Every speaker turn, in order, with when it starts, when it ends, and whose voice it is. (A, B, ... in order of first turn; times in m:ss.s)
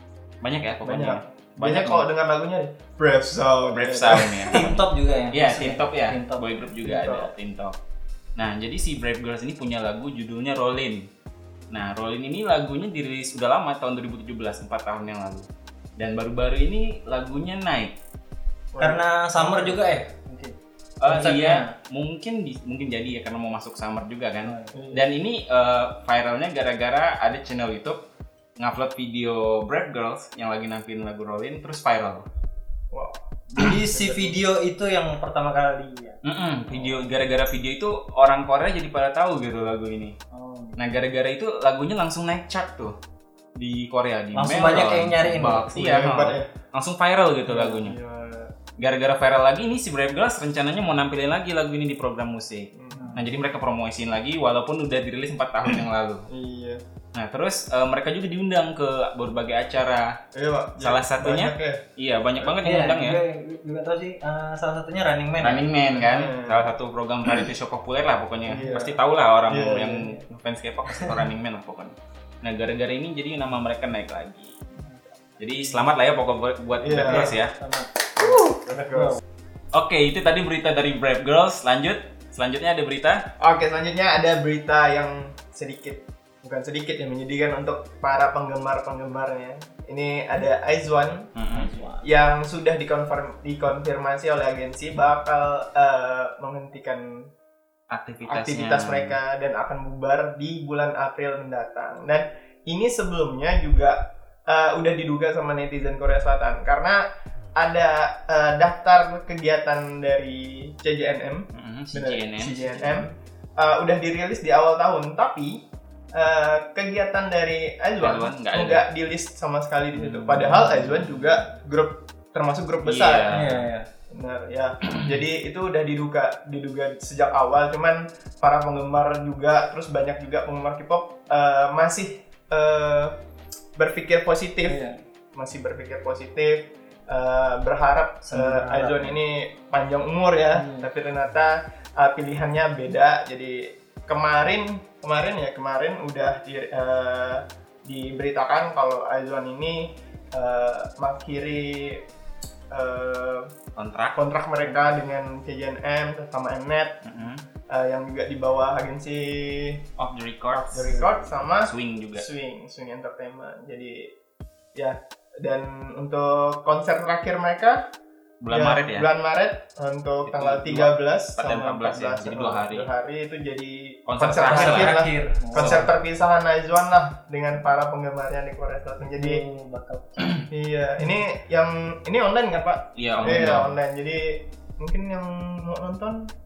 0:00.4-0:02.1 A
0:00.8-0:04.6 B
0:03.7-0:07.8 A
0:04.5-0:07.2 C
0:06.9-0:07.2 B
0:08.4-0:11.1 A
0:11.7-0:18.0 A
0:18.7-0:20.0 B
0:18.8-0:20.5 C
0:21.0-0:28.1 A
0:21.0-0:21.7 C
0:24.4-0:24.7 C
0:24.7-0:25.1 B
0:28.6-0:32.3 A
0:32.9-0:34.4 B
0:33.5-0:36.2 C
0:36.2-0:40.2 A
0:40.3-0:40.9 C
0:40.8-0:43.0 A
0:43.6-0:48.0 A
0:44.3-0:45.7 C
0:45.7-0:46.5 B
0:47.5-0:48.5 B
0:48.8-0:56.3 A
0:52.7-0:53.2 B
0:52.9-0:53.3 C
0:56.3-0:56.8 B
0:57.2-1:00.1 A
1:00.3-1:01.8 B
1:00.8-1:03.2 A
1:02.6-1:05.7 C
1:05.4-1:14.6 A
1:06.0-1:06.7 B
1:08.5-1:10.2 B
1:10.9-1:11.2 C
1:15.4-1:17.5 A
1:16.8-1:17.4 B
1:17.1-1:17.9 C
1:18.2-1:18.6 A
1:18.3-1:19.2 B
1:19.0-1:19.2 C
1:19.7-1:23.3 A
1:23.4-1:31.3 B
1:31.4-1:31.7 A
1:31.5-1:32.1 C
1:32.0-1:37.3 B
1:37.9-1:39.2 A
1:38.3-1:47.0 B
1:47.6-1:55.6 B
1:51.5-1:52.8 A
1:52.4-1:53.1 C
1:56.1-2:03.3 B
1:58.0-1:58.8 A
2:00.0-2:01.4 A
2:02.8-2:03.6 A
2:03.3-2:03.9 C
2:04.1-2:13.2 B
2:04.9-2:05.2 A
2:13.8-2:14.8 B
2:14.7-2:15.0 C
2:15.4-2:32.0 B
2:18.2-2:19.2 C
2:20.5-2:20.9 C
2:32.7-2:33.5 B
2:33.8-2:34.2 A
2:34.2-2:37.0 B
2:37.0-2:37.4 A
2:37.7-2:39.8 B
2:40.0-2:42.2 A
2:40.6-2:44.1 B
2:44.8-2:47.8 B
2:48.4-2:49.1 A
2:48.5-2:59.4 B
2:50.2-2:52.9 A
2:54.1-2:54.9 A
2:54.4-2:55.9 C
2:55.5-2:55.9 A
2:59.1-3:00.5 C
3:00.5-3:06.3 B
3:03.0-3:03.8 A